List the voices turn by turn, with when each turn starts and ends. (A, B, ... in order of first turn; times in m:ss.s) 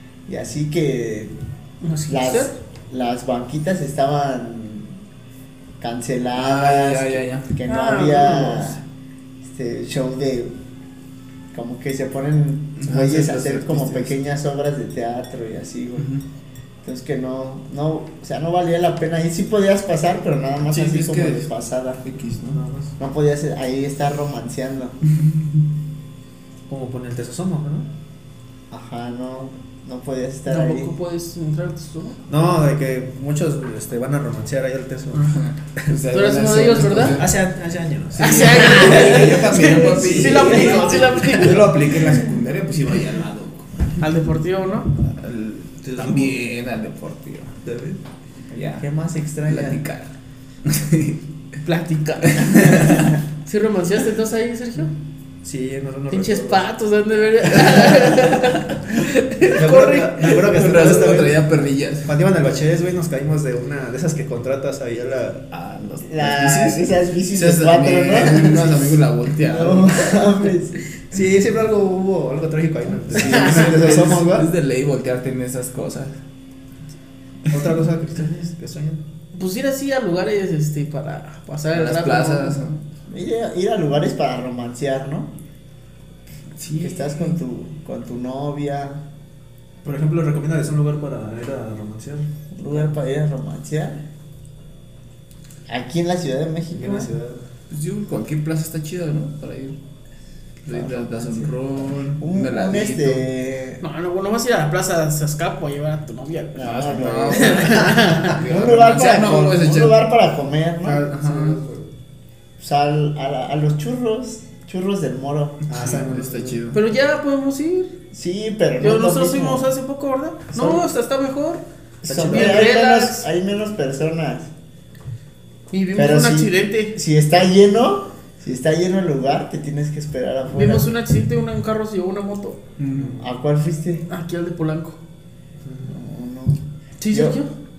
0:00.3-0:01.4 A
0:01.8-0:02.6 B
0:02.1-0:05.0 A
0:05.8-0:08.8 A
0:06.4-0:07.5 C
0:07.7-0:08.8 B
0:09.4-0:10.6 A
0:11.5-0:16.1 A
0:12.8-0:14.2 C
0:16.0-0:16.2 C
0:16.8-0:22.0 A
0:20.7-0:22.6 C
0:22.5-0:22.9 D
0:23.0-0:25.0 A
0:25.2-0:25.6 C
0:26.7-0:27.9 D
0:28.7-0:30.9 A
0:30.5-0:32.2 B
0:32.3-0:35.3 D
0:35.3-0:37.4 C
0:36.1-0:37.2 B
0:37.2-0:39.4 D
0:38.2-0:44.2 C
0:38.2-0:41.7 B
0:44.0-0:44.9 B
0:45.0-0:47.6 C
0:45.8-0:46.4 D
0:47.6-0:48.0 D
0:48.5-0:48.9 C
0:48.6-0:49.8 A
0:49.5-0:50.1 C
0:50.7-0:51.2 C
0:51.6-0:52.8 B
0:52.4-0:53.1 C
0:53.4-0:54.9 B
0:55.4-0:56.6 D
0:56.1-1:00.4 B
0:57.6-0:58.1 D
0:59.5-1:01.5 D
1:00.4-1:02.1 C
1:02.1-1:05.5 D
1:05.5-1:10.2 C
1:06.1-1:08.8 A
1:09.5-1:10.8 A
1:11.1-1:14.5 D
1:13.1-1:16.2 C
1:17.5-1:19.0 D
1:19.3-1:22.6 B
1:21.7-1:22.8 C
1:23.1-1:25.3 A
1:26.6-1:27.4 C
1:26.8-1:29.0 A
1:29.8-1:32.3 D
1:32.5-1:34.0 A
1:35.7-1:37.1 A
1:36.7-1:37.4 D
1:37.7-1:39.8 C
1:40.6-1:43.3 C
1:40.7-1:41.3 A
1:42.2-1:43.8 A
1:43.8-1:46.7 B
1:46.6-1:51.1 A
1:46.6-1:50.0 C
1:47.3-1:48.3 B
1:50.8-1:51.9 D
1:51.1-1:51.6 C
1:52.6-1:55.6 A
1:55.7-1:56.6 D
1:55.7-1:56.8 C
1:56.7-1:57.9 B
1:58.1-1:59.7 A
1:58.8-2:01.6 B
2:02.0-2:02.7 D
2:02.0-2:04.5 A
2:02.3-2:03.3 B
2:05.7-2:07.0 B
2:05.9-2:10.9 A
2:10.5-2:12.6 B
2:12.8-2:13.2 C
2:12.9-2:13.3 D
2:13.2-2:14.1 A
2:14.1-2:15.0 B
2:15.6-2:16.0 D
2:15.8-2:17.4 A
2:17.0-2:17.5 B